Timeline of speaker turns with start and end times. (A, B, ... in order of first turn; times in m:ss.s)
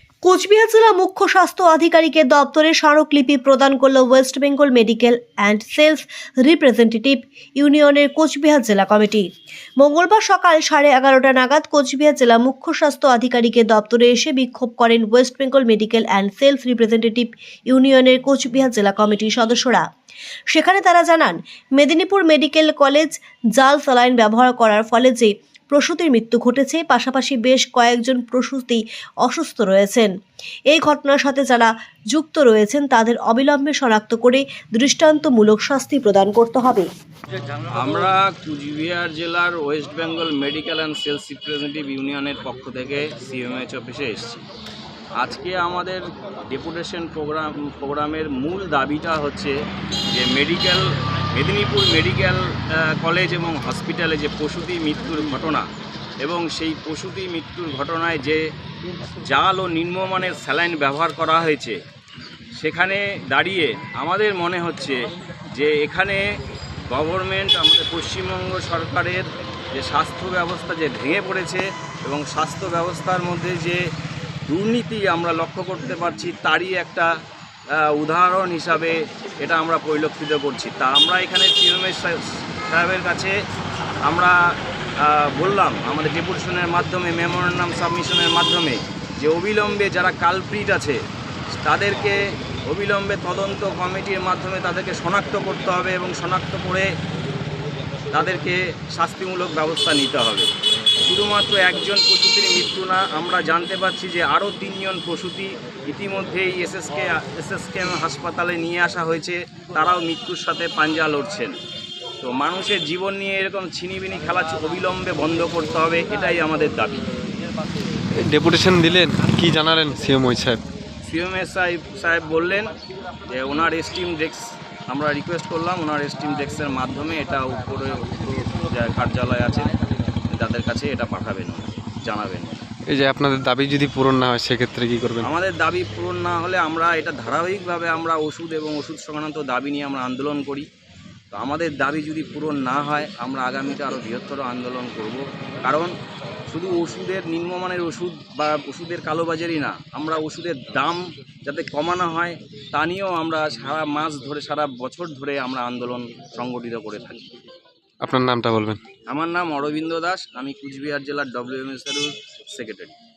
0:00.2-0:09.3 A
0:09.8-0:19.8 A
0:20.5-0:30.1 A
0:30.7-0:36.9 A
0:37.7-0:44.4 B
0:45.2-0:49.6 B
0:50.1-0:55.6 B
0:56.2-0:58.4 B
0:59.2-1:01.8 B
1:02.6-1:05.0 B
1:05.5-1:06.2 B
1:06.9-1:13.8 B
1:14.5-1:17.1 B
1:17.8-1:23.3 B
1:24.0-1:24.3 B
1:25.0-1:31.0 B
1:31.6-1:32.2 B
1:32.7-1:36.9 B
1:38.1-1:40.5 B
1:41.0-1:51.6 B
1:52.2-1:57.0 B
1:58.2-2:00.6 C
2:01.0-2:02.7 B
2:03.3-2:09.8 B
2:10.3-2:12.6 B
2:12.9-2:15.3 C
2:15.2-2:20.7 B
2:21.3-2:25.9 B
2:26.5-2:37.3 B
2:38.0-2:38.8 C
2:39.1-2:42.9 B